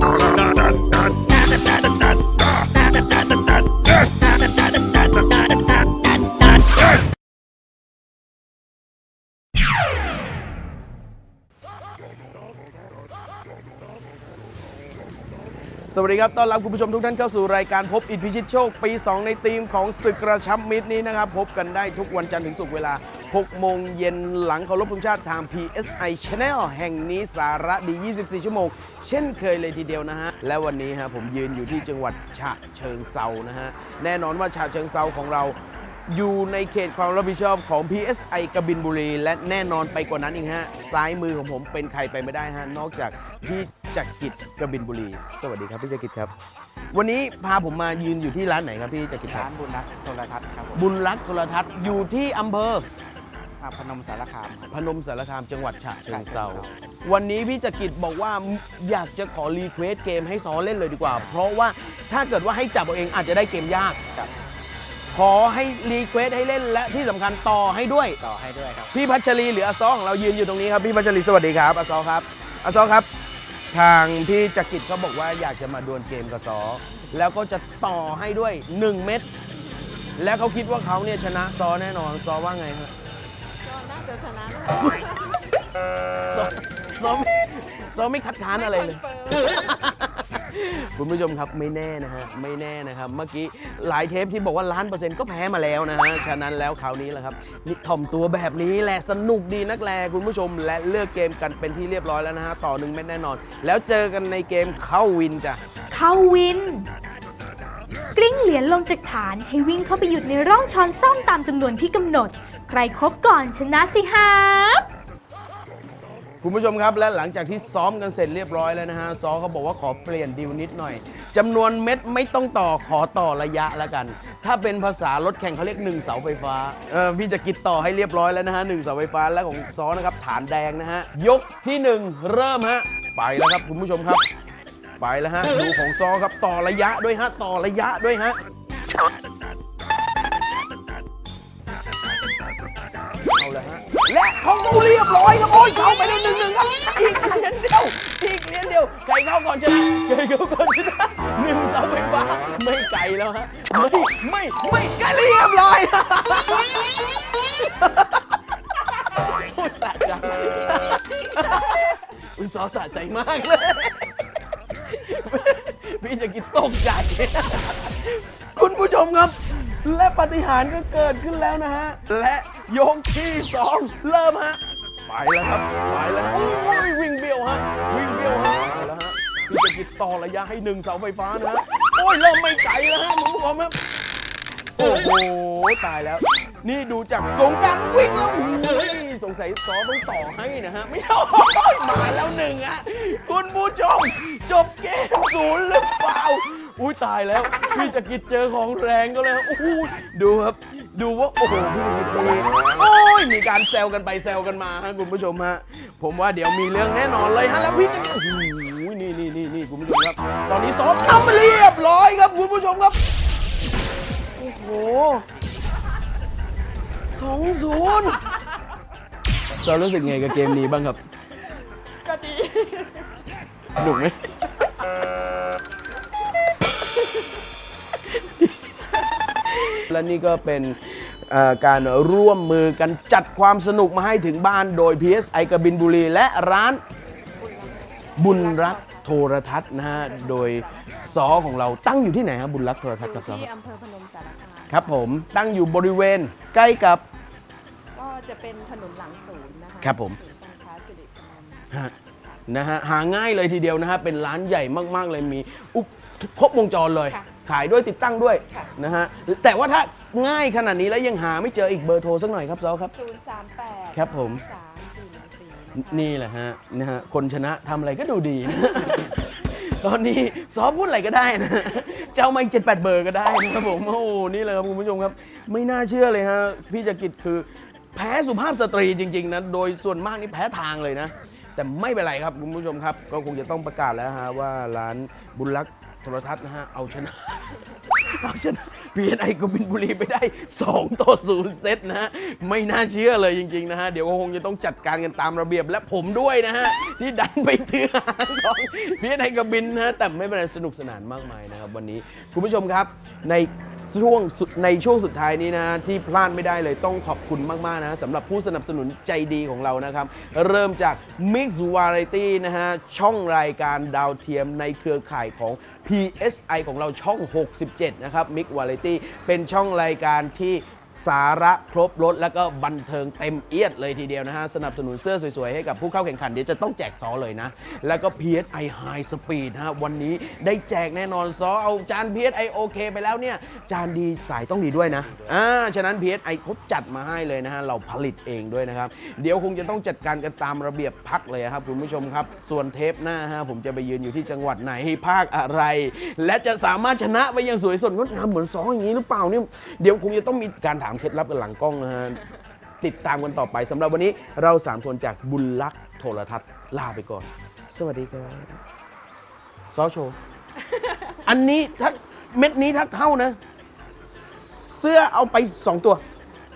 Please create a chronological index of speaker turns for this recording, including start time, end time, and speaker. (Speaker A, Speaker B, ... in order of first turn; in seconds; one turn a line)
Speaker A: 15.9-46.3
Speaker A: 46.9-49.5
Speaker B: 49.3-50.8
Speaker A: 50.7-52.9
Speaker B: 53.6-54.8
Speaker A: 54.7-64.0
Speaker B: 56.1-56.7
Speaker A: 65.1-68.2
Speaker B: 68.2-68.9
Speaker A: 68.9-73.1
Speaker A: 73.7-79.3
Speaker A: 80.2-82.9
Speaker C: 83.6-85.2
Speaker A: 86.3-105.6
Speaker C: 88.5-89.6
Speaker D: 105.9-106.9
Speaker D: 108.1-114.9
Speaker A: 116.4-134.2
Speaker A: 135.0-138.4
Speaker A: 143.3-156.9
Speaker A: 157.6-158.2
Speaker A: 159.2-164.2
Speaker A: 164.8-183.8
Speaker A: 184.8-213.0
Speaker A: 214.4-215.2
Speaker A: 217.2-218.2
Speaker A: 219.5-221.0
Speaker C: 222.0-223.0
Speaker A: 223.8-224.5
Speaker A: 229.7-236.8
Speaker C: 237.3-239.1
Speaker A: 238.2-243.5
Speaker C: 239.8-241.3
Speaker C: 243.0-245.0
Speaker A: 244.7-247.0
Speaker C: 247.9-251.7
Speaker A: 249.8-250.2
Speaker A: 252.5-262.9
Speaker C: 262.9-266.1
Speaker A: 263.9-264.4
Speaker A: 265.7-352.2
Speaker B: 334.9-335.3
Speaker A: 352.8-358.6
Speaker A: 359.7-360.2
Speaker A: 361.2-363.4
Speaker A: 364.1-366.0